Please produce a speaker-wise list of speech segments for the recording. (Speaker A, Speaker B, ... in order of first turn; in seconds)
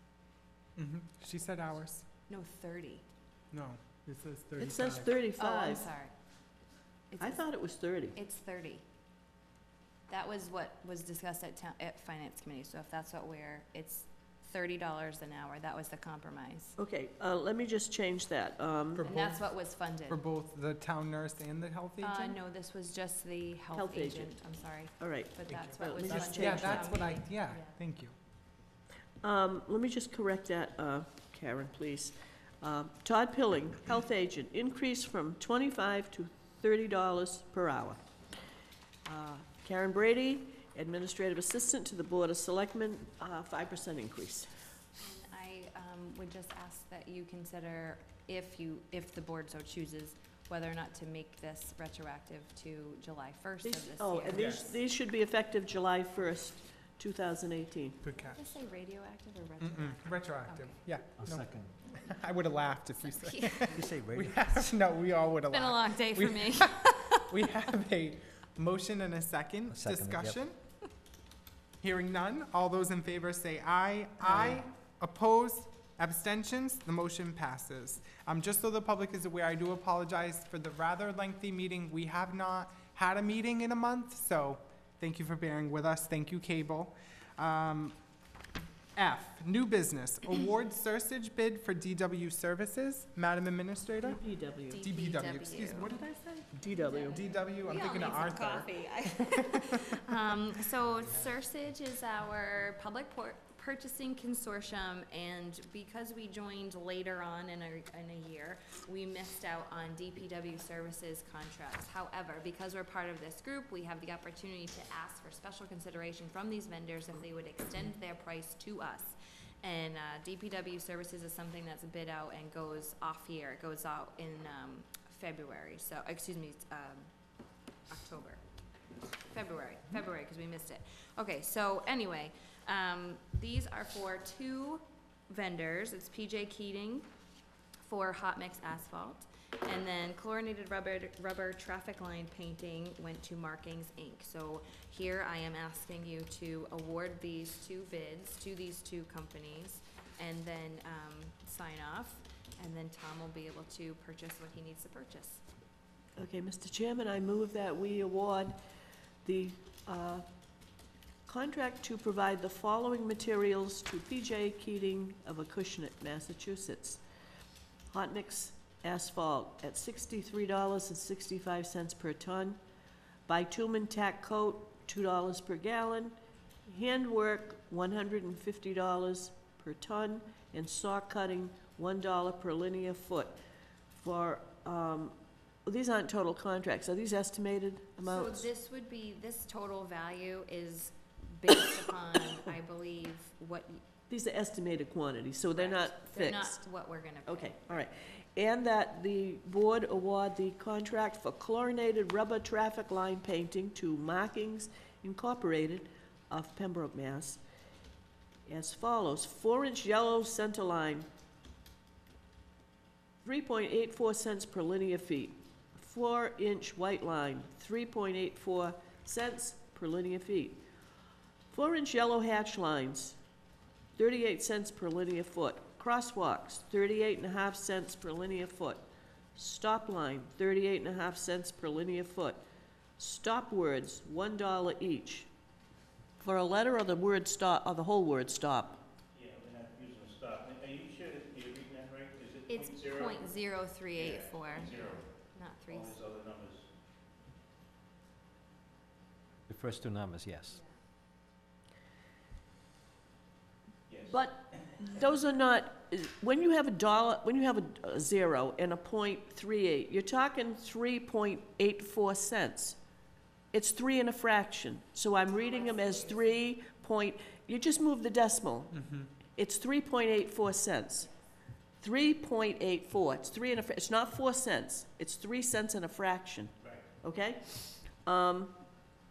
Speaker A: 0.8-2.0, 3.5-5.2, 19.0-19.5, 20.1-22.4, 25.5-28.1, 54.3-54.6, 58.0-58.5, 59.6-70.6, 71.8-88.0, 89.0-94.2, 94.8-98.7, 99.3-99.6, 268.7-269.1
Speaker B: 2.3-3.0, 5.4-6.1, 7.1-7.4, 8.2-8.8, 10.1-16.8, 19.0-20.2, 22.0-27.8, 45.0-54.7, 58.1-60.8, 63.0-63.8, 65.5-67.3, 94.7-96.0, 96.7-127.1, 127.9-128.4, 129.2-137.1, 137.8-155.4, 188.0-193.8, 195.6-197.8, 242.5-246.0, 265.4-266.3
Speaker C: 4.6-5.9, 7.2-8.2, 16.8-19.1, 23.7-24.3, 25.0-27.0, 29.2-38.0, 39.0-44.5, 53.6-58.0, 94.0-94.8, 96.6-97.1, 156.2-158.6, 159.2-160.3, 161.3-167.0, 167.9-172.6, 173.3-176.2, 176.7-183.4, 184.0-188.5, 194.1-196.6, 197.3-207.4, 208.5-211.1, 213.2-220.6, 221.5-223.2, 224.0-232.4, 233.0-235.3, 236.2-238.8, 254.1-262.8, 263.5-268.8, 269.4-271.1, 271.8-278.6
Speaker D: 61.2-61.7, 63.7-64.6, 69.7-70.4, 249.5-250.6
Speaker E: 239.1-243.3, 243.9-245.0, 245.7-246.7